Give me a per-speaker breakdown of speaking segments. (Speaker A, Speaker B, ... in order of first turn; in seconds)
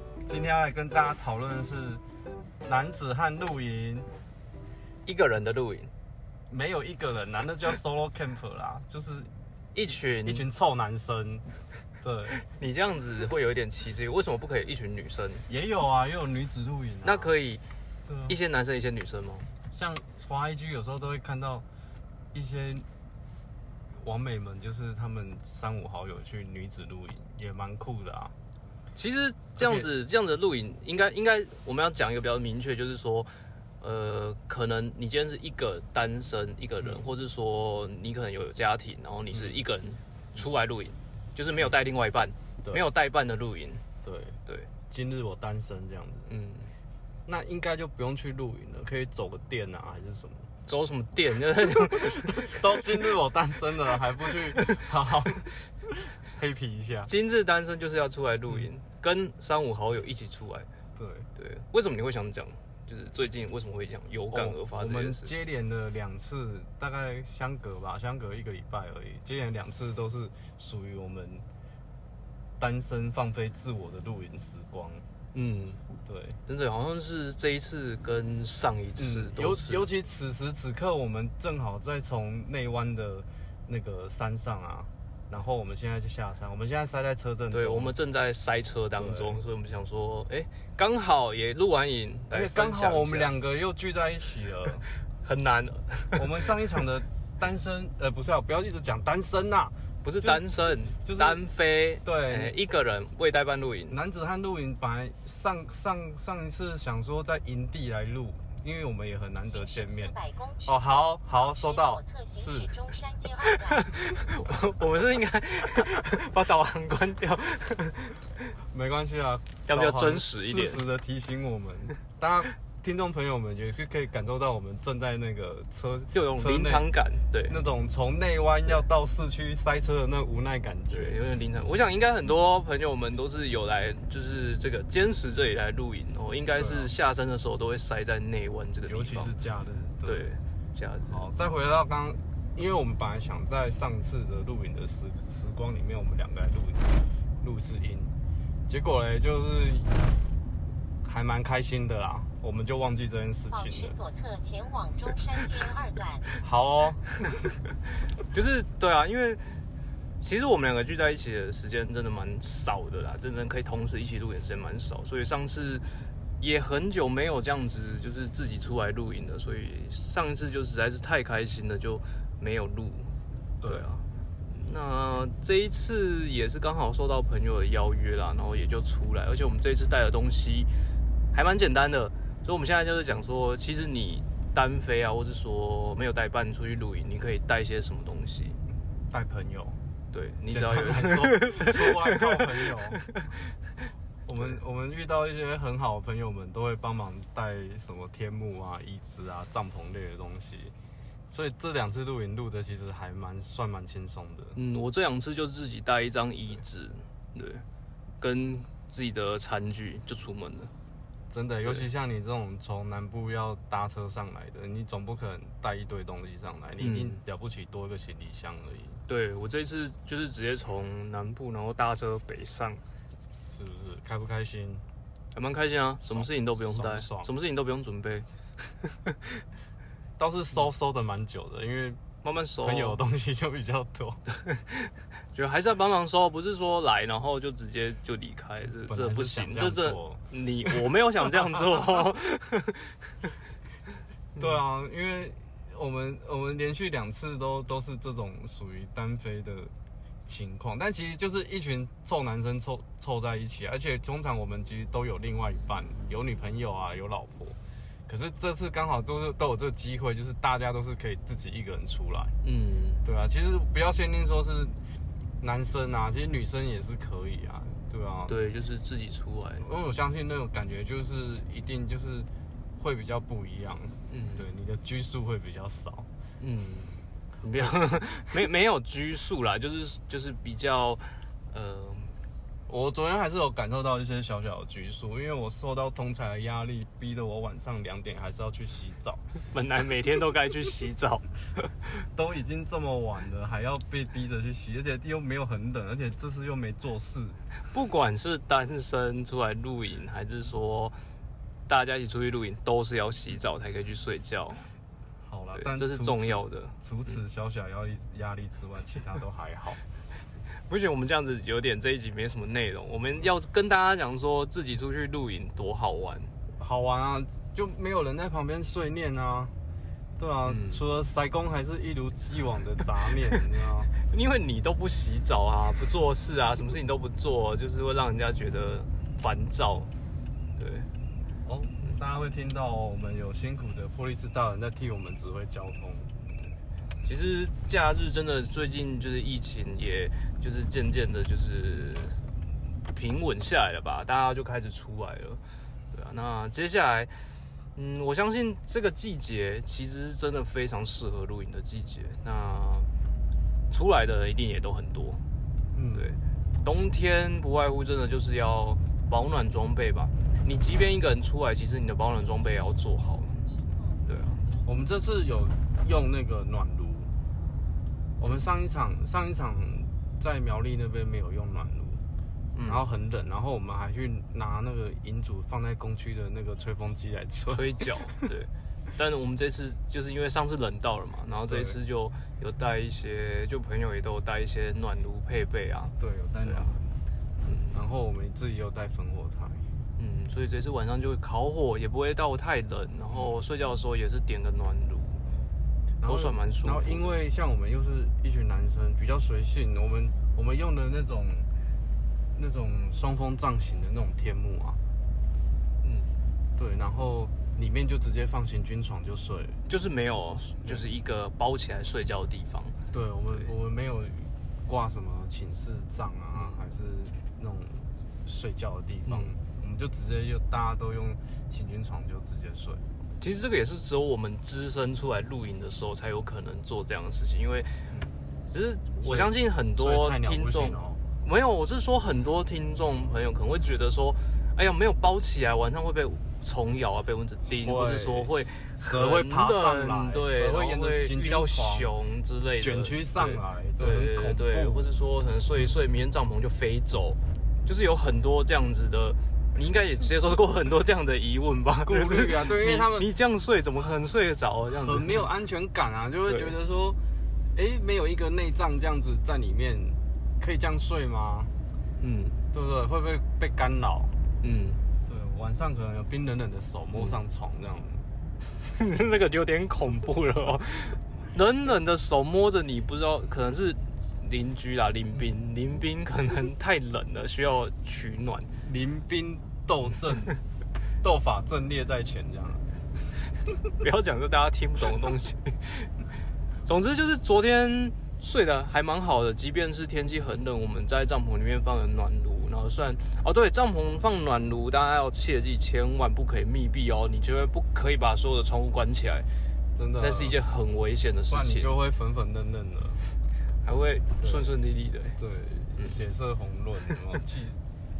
Speaker A: 0.3-2.0, 2.6-4.1, 6.5-9.3, 10.2-11.4, 12.0-12.4, 15.5-17.3, 18.1-18.3, 19.7-21.6, 22.3-22.9, 24.0-28.3, 29.6-29.9, 44.0-46.3, 47.2-50.5, 51.8-57.1, 61.0-61.3, 64.3-71.4, 72.6-75.0, 76.0-76.4, 79.0-87.9, 89.0-89.4, 92.3-94.8, 96.1-100.4, 101.0-101.4, 102.0-102.5, 103.9-110.1, 110.7-112.7, 118.7-126.9, 127.5-131.2, 136.6-136.9, 138.8-140.3, 141.1-148.1, 148.7-150.0, 151.0-153.9, 156.4-157.1, 189.1-189.8, 190.5-193.0, 194.2-200.7, 201.3-204.6, 211.3-219.0, 223.5-224.8, 226.0-227.3, 230.2-232.0, 232.6-234.2, 238.8-240.2, 244.4-249.7, 250.2-262.3, 263.0-264.8, 265.4-268.3, 269.6-276.1, 282.7-289.2, 292.1-297.4, 305.2-309.8, 316.6-319.5, 320.2-323.9, 331.4-336.1, 355.7-356.1, 364.6-367.1, 368.2-372.0, 372.6-378.2, 381.5-381.8, 386.0-386.9, 387.7-389.7, 396.0-401.5, 402.3-404.8, 406.6-409.6, 412.9-422.8, 429.0-431.0, 437.6-441.9, 442.6-444.9, 451.8-453.1, 454.7-457.0, 457.5-461.5, 462.5-464.1, 465.1-468.0, 478.6-480.4, 481.0-482.7, 499.8-500.4, 501.3-503.1, 504.2-504.5, 505.2-507.6
Speaker B: 5.0-5.9, 9.7-10.4, 12.4-15.5, 17.0-17.6, 18.3-19.5, 28.9-43.8, 46.3-46.7, 50.6-52.8, 57.1-60.7, 61.4-65.4, 75.3-75.8, 76.5-79.9, 87.5-93.3, 95.2-96.2, 100.0-104.0, 113.8-118.2, 119.7-120.8, 126.1-127.5, 130.9-139.3, 140.0-141.2, 158.3-159.4, 160.2-165.8, 166.4-173.1, 173.6-180.7, 181.3-188.6, 190.1-193.2, 204.6-207.6, 208.2-210.7, 216.8-217.2, 219.1-222.8, 225.3-229.2, 232.2-233.0, 234.4-243.3, 262.4-263.0, 268.3-269.6, 274.1-274.4, 276.4-282.1, 289.5-291.2, 297.7-300.9, 301.7-304.7, 305.5-306.7, 310.7-316.3, 320.4-320.8, 324.0-329.9, 330.6-330.9, 337.0-342.2, 342.9-345.4, 345.9-347.2, 347.8-352.9, 353.7-355.2, 355.9-363.4, 364.0-364.4, 372.5-372.8, 377.5-386.8, 387.4-387.8, 390.0-395.2, 396.0-397.1, 405.8-406.1, 409.7-412.8, 416.3-416.6, 419.1-419.3, 423.2-427.9, 428.5-455.2, 462.0-462.4, 464.4-464.8, 468.6-478.5, 483.8-485.9, 486.6-499.3, 500.0-501.7, 503.6-505.2
Speaker C: 109.4-113.9, 153.5-156.3